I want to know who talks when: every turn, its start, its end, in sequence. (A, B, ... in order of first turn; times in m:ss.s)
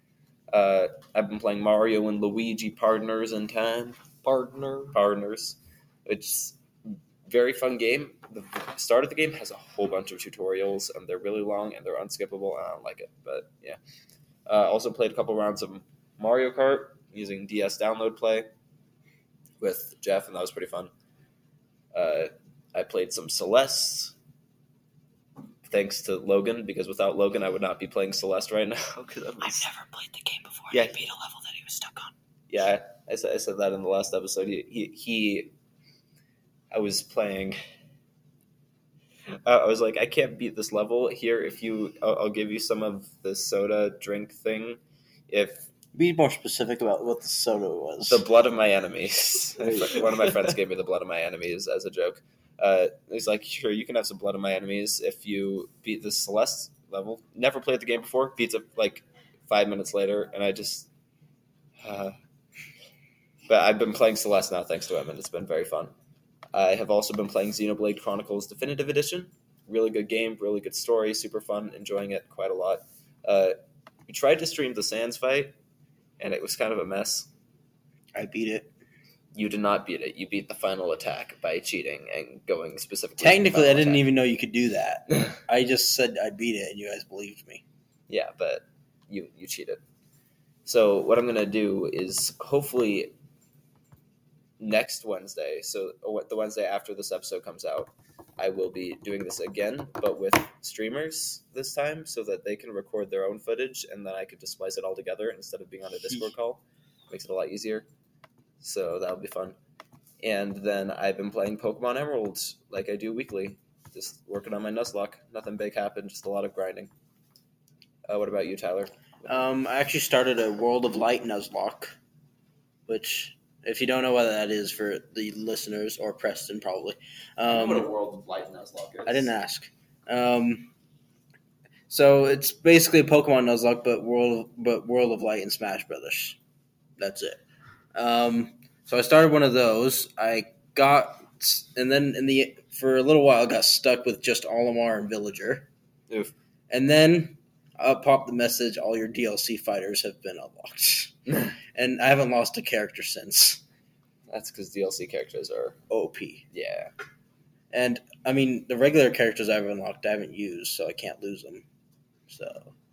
0:00.5-0:04.0 A
0:04.2-0:05.0 B
0:04.9-0:13.8 A
0:14.5-0:18.5 A
0:19.6-0:20.9 A
0:21.9-0:24.1 A
0:25.7-0:29.7 A
0:29.4-0:32.1 B
0:30.7-0:31.0 A
0:32.5-0:35.5 A
0:36.7-0:37.6 A
0:39.4-0:45.7 A
0:45.9-0:48.2 C
0:48.0-1:00.9 A
0:49.6-0:50.0 C
1:01.8-1:02.2 A
1:03.5-1:05.9 A
1:06.5-1:13.6 A
1:14.1-1:15.5 A
1:16.2-1:17.3 A
1:18.2-1:18.7 C
1:19.3-1:24.1 A
1:23.2-1:27.6 C
1:28.1-1:29.8 A
1:30.6-1:33.1 A
1:34.6-1:47.9 A
1:48.6-1:49.6 A
1:50.2-1:56.9 A
1:58.1-1:59.0 A
1:59.2-2:02.0 C
2:02.9-2:07.9 C
2:07.5-2:09.3 A
2:09.1-2:10.7 C
2:11.9-2:16.4 C
2:17.0-2:17.4 C
2:17.9-2:25.7 C
2:26.7-2:33.6 C
2:34.3-2:35.8 A
2:35.9-2:36.4 C
2:36.5-2:36.9 A
2:37.7-2:41.6 C
2:42.3-2:42.7 C